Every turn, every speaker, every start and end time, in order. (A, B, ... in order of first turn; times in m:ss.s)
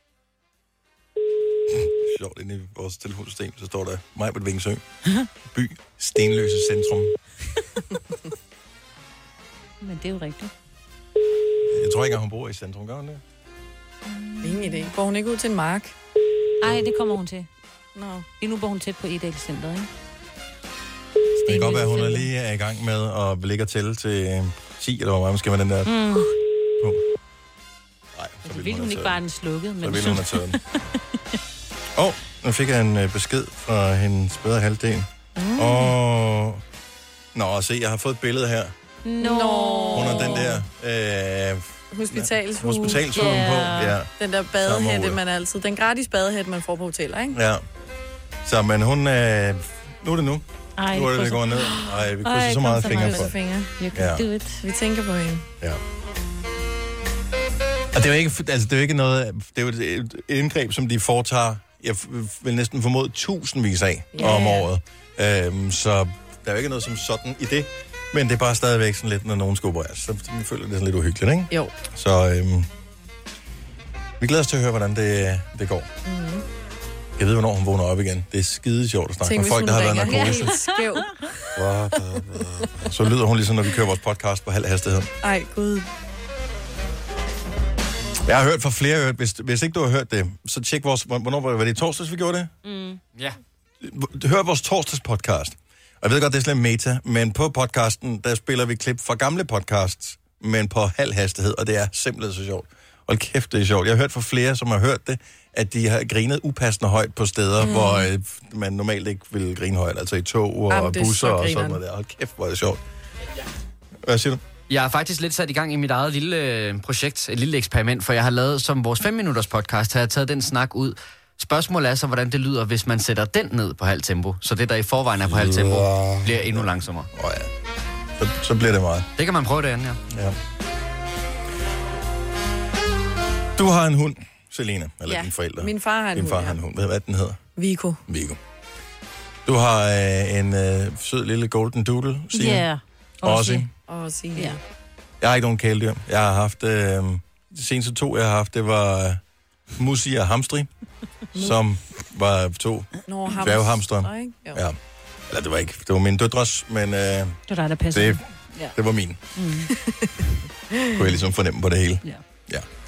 0:01.8-0:04.8 A
0:05.5-0:07.1 A
0:09.8-0:10.5 B
0:11.7-0:13.2 A
0:14.1-0:14.9 B
0:14.4-0:15.9 C
0:16.6-0:17.5 B
0:17.9-0:18.2 C
0:18.4-0:19.9 B
0:21.4-0:22.3 B
0:21.5-0:25.9 A
0:25.9-0:26.3 B
0:28.1-0:29.2 A
0:28.4-0:31.4 B
0:29.8-0:30.6 A
0:32.0-0:36.6 A
0:35.4-0:35.9 C
0:37.3-0:38.7 A
0:39.0-0:40.5 B
0:39.2-0:40.6 C
0:39.9-0:44.1 A
0:41.9-0:43.4 C
0:42.9-0:44.0 B
0:44.2-0:47.4 C
0:44.6-0:45.2 A
0:47.3-0:47.6 A
0:48.4-0:53.3 A
0:50.8-0:54.6 B
0:52.8-0:53.7 C
0:53.9-0:54.2 A
0:54.6-0:55.4 C
0:57.9-1:12.7 A
1:04.1-1:04.6 C
1:14.2-1:15.9 A
1:16.0-1:16.4 C
1:17.2-1:20.6 A
1:19.2-1:21.3 C
1:20.0-1:21.3 B
1:21.5-1:25.1 A
1:25.2-1:25.9 C
1:28.2-1:32.5 A
1:32.6-1:33.0 B
1:33.8-1:52.8 A
1:47.6-1:48.1 C
1:50.7-1:51.8 C
1:54.0-1:54.4 A
1:54.7-2:07.1 D
2:05.4-2:05.6 A
2:06.4-2:07.5 A
2:08.2-2:09.1 A
2:09.2-2:10.0 D
2:10.1-2:10.4 A
2:13.6-2:17.4 A
2:15.1-2:16.6 C
2:17.6-2:18.0 C
2:18.1-2:18.4 A
2:19.4-2:22.6 A
2:22.3-2:23.6 B
2:23.2-2:23.7 A
2:23.9-2:24.6 C
2:25.2-2:29.2 A
2:29.8-2:30.7 A
2:31.3-2:34.8 A
2:33.1-2:34.6 C
2:35.3-2:37.4 A
2:37.5-2:38.8 B
2:37.9-2:38.2 A
2:38.7-2:39.2 A
2:39.3-2:39.7 B
2:40.9-2:42.6 A